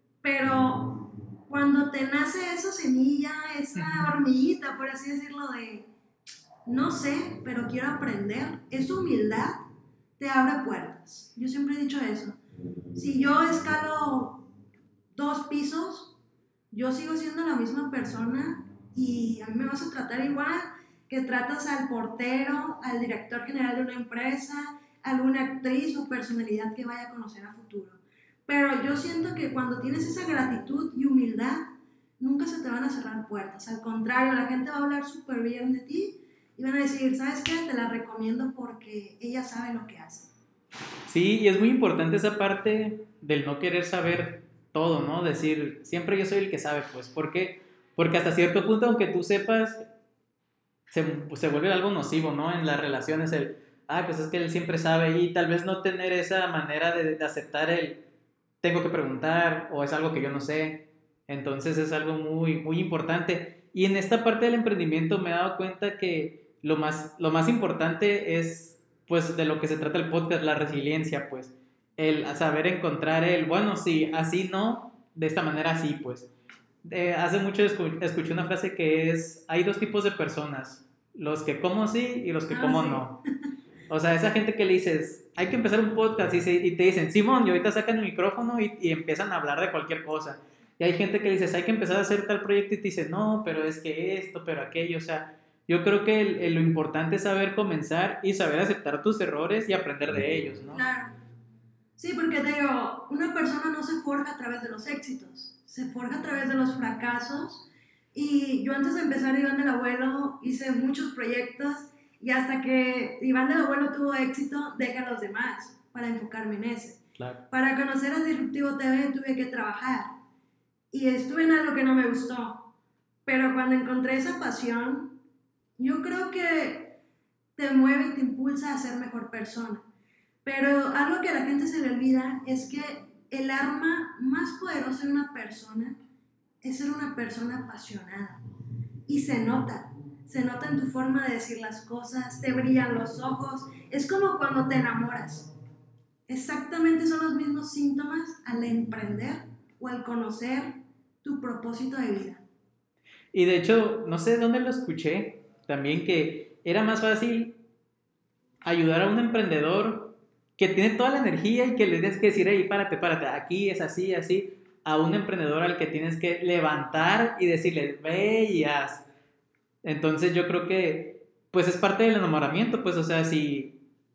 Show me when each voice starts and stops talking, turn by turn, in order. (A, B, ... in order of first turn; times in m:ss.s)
0:00.2-0:05.9 A
0:03.8-0:04.1 B
0:06.6-0:09.6 A
0:10.2-0:12.4 A
0:12.9-0:14.4 A
0:15.1-0:16.2 A
0:16.7-0:31.7 A
0:32.2-0:40.3 A
0:41.1-0:49.8 B
0:50.9-0:58.0 B
0:58.6-1:16.3 B
1:16.8-1:23.2 B
1:22.5-1:23.2 A
1:23.9-1:40.8 B
1:40.7-1:41.1 A
1:42.0-2:00.1 A
2:00.9-2:02.7 A
2:03.2-2:05.1 A
2:05.8-2:07.0 A
2:07.6-2:09.8 A
2:10.4-2:16.0 A
2:16.6-2:18.4 A
2:19.1-2:25.5 A
2:26.3-2:32.4 A
2:33.3-2:37.6 B
2:38.6-2:49.0 B
2:49.8-2:53.8 B